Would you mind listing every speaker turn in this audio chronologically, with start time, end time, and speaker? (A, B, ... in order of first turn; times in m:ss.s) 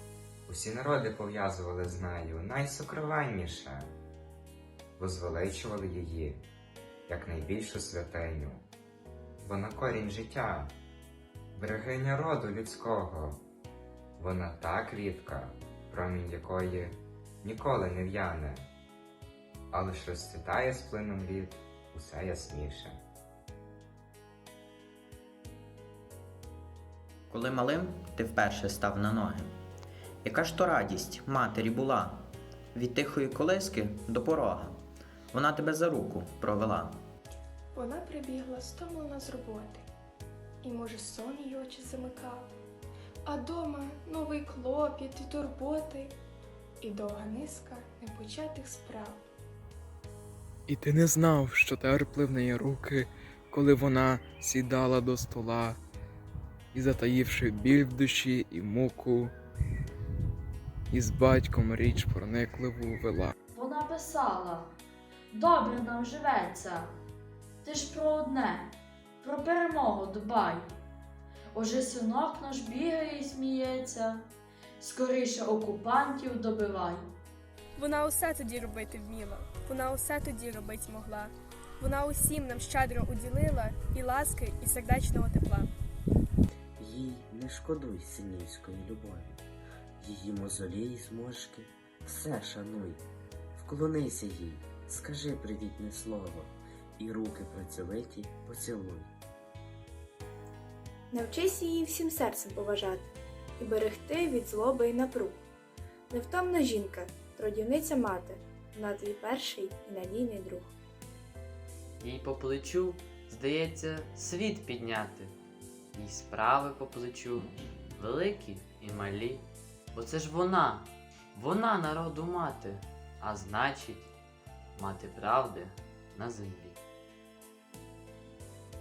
0:00.5-0:03.9 A
0:05.0-0:06.4 A
0:07.1-0:08.6 A
0:09.4-0:10.8 A
0:11.5-0:13.4 A
0:14.2-0:18.7 A
0:19.7-0:23.0 A
0:27.3-0:29.5 B
0:30.2-0:34.8 B
0:35.3-0:37.0 B
0:37.7-0:39.8 C
0:40.6-0:42.5 C
0:43.2-0:46.2 C
0:46.8-0:49.2 C
0:50.7-0:55.8 D
0:56.7-0:59.3 D
1:00.9-1:03.3 D
1:03.5-1:04.7 E
1:05.3-1:06.9 E
1:07.6-1:10.7 E
1:11.5-1:14.3 E
1:14.8-1:17.1 E
1:17.8-1:25.7 F
1:26.8-1:29.4 G
1:30.0-1:33.0 G
1:33.6-1:39.1 G
1:41.1-1:45.4 H
1:46.1-1:50.7 H
1:52.0-1:55.3 I
1:55.9-2:04.1 I
2:04.7-2:06.8 I